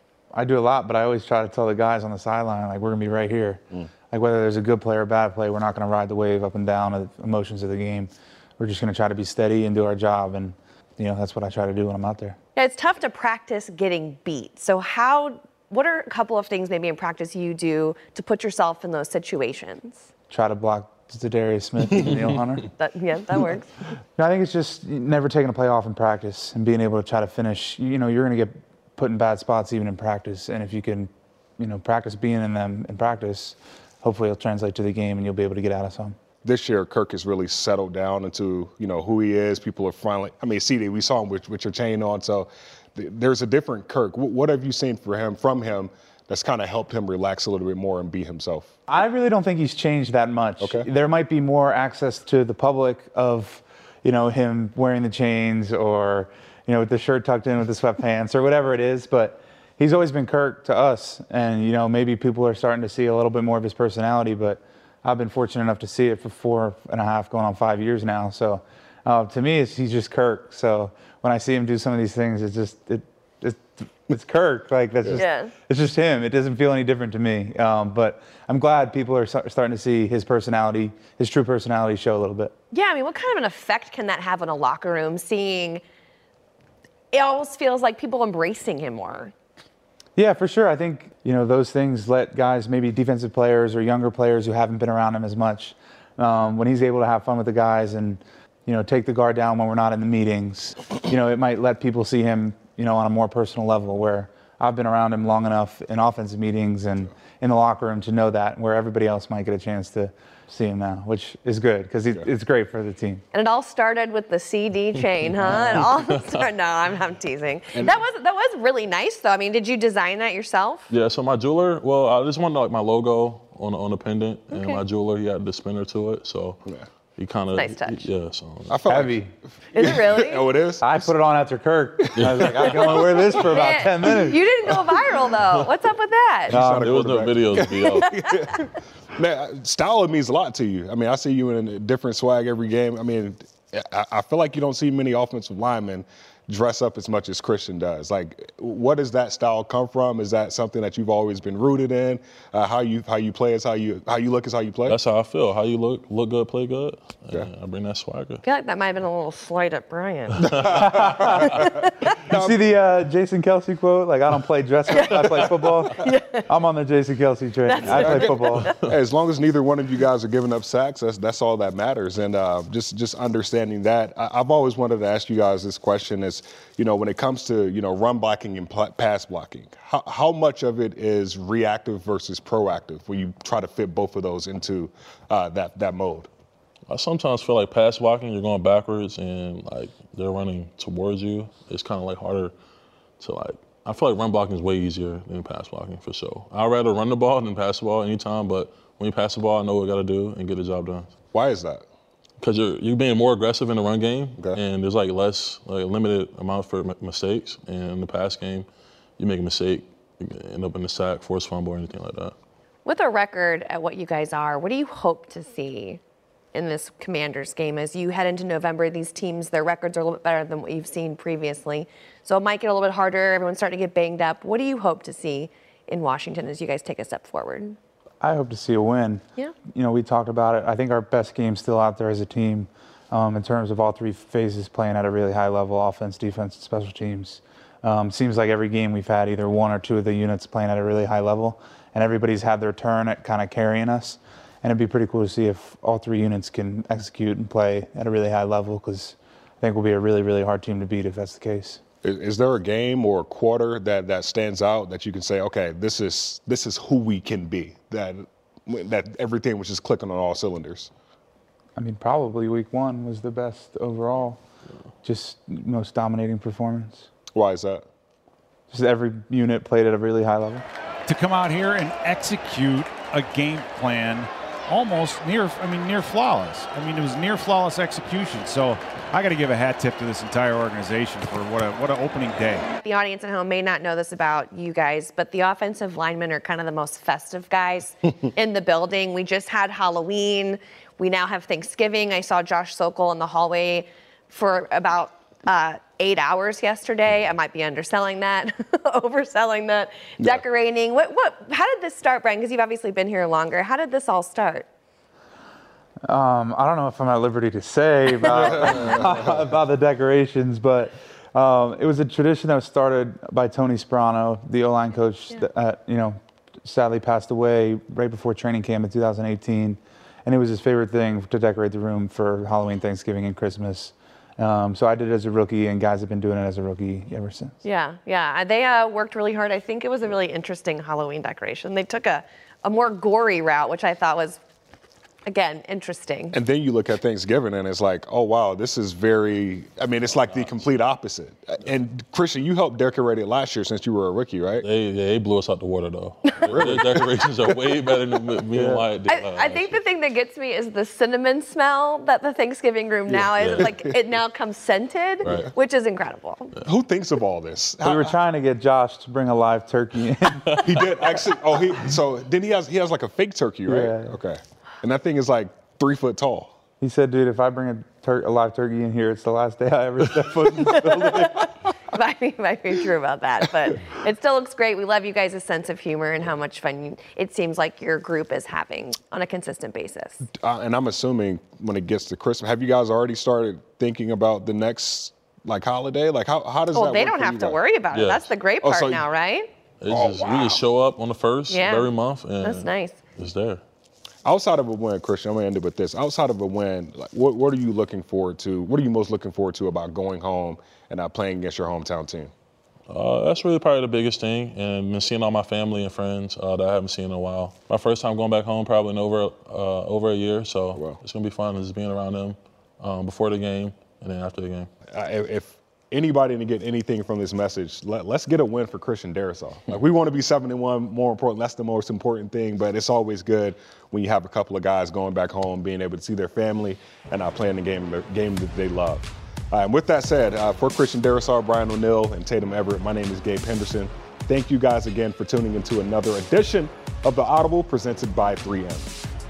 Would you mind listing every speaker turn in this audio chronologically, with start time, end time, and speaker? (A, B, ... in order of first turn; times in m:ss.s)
0:00.3-0:12.4 A
0:12.5-0:20.1 B
0:20.3-0:22.7 A
0:22.8-0:23.7 B
0:24.2-0:36.2 A
0:36.4-0:48.7 C
0:48.9-1:22.5 A
0:50.6-0:50.8 C
1:15.1-1:15.5 B
1:22.7-1:25.8 B
1:27.1-1:29.3 B
1:30.2-1:53.2 A
1:53.3-2:00.9 B
1:55.5-1:56.3 D
2:00.9-2:06.6 D
2:04.5-2:04.8 B
2:07.2-2:08.8 D
2:07.5-2:08.1 B
2:08.7-2:11.0 C
2:08.9-2:09.3 A
2:09.7-2:10.5 B
2:10.8-2:14.4 A
2:12.2-2:12.6 D
2:12.3-2:12.7 C
2:13.3-2:16.6 B
2:16.5-2:35.0 C
2:16.5-2:17.3 A
2:16.6-2:18.2 D
2:17.9-2:18.6 B
2:34.9-2:38.4 D
2:38.4-2:42.1 B
2:40.4-2:42.6 C
2:40.6-2:48.7 A
2:44.9-2:46.5 B
2:47.6-2:48.8 B
2:47.9-3:06.3 C
3:06.9-3:12.5 D
3:13.2-3:21.1 D
3:21.3-3:21.8 C
3:22.4-3:28.6 D
3:29.2-3:32.3 D
3:32.8-3:36.0 B
3:36.5-3:47.8 B
3:48.2-4:11.8 A
4:12.0-4:20.9 C
4:21.8-4:24.4 A
4:25.0-4:27.1 A
4:27.3-4:27.8 C
4:28.7-4:30.6 A
4:31.0-4:42.6 E
4:42.8-5:04.7 B
5:06.0-5:27.6 A
5:08.4-5:08.9 C
5:27.6-5:34.4 B
5:35.2-5:36.4 B
5:36.3-5:44.6 C
5:44.6-5:49.8 D
5:46.3-5:46.7 B
5:46.5-5:47.5 C
5:48.5-5:48.8 A
5:49.0-5:56.6 B
5:53.2-5:53.7 C
5:55.2-5:55.5 D
5:56.6-5:58.1 C
5:57.8-6:01.0 A
6:00.6-6:06.5 C
6:03.6-6:04.2 A
6:06.8-6:11.5 A
6:10.6-6:20.2 B
6:20.3-6:27.6 C
6:26.7-6:29.5 B
6:27.9-6:28.3 D
6:28.6-6:29.0 C
6:29.8-6:33.6 D
6:29.9-6:30.6 C
6:31.5-6:31.9 B
6:32.4-6:33.0 B
6:34.2-6:42.3 C
6:42.9-6:54.7 D
6:54.9-7:18.9 C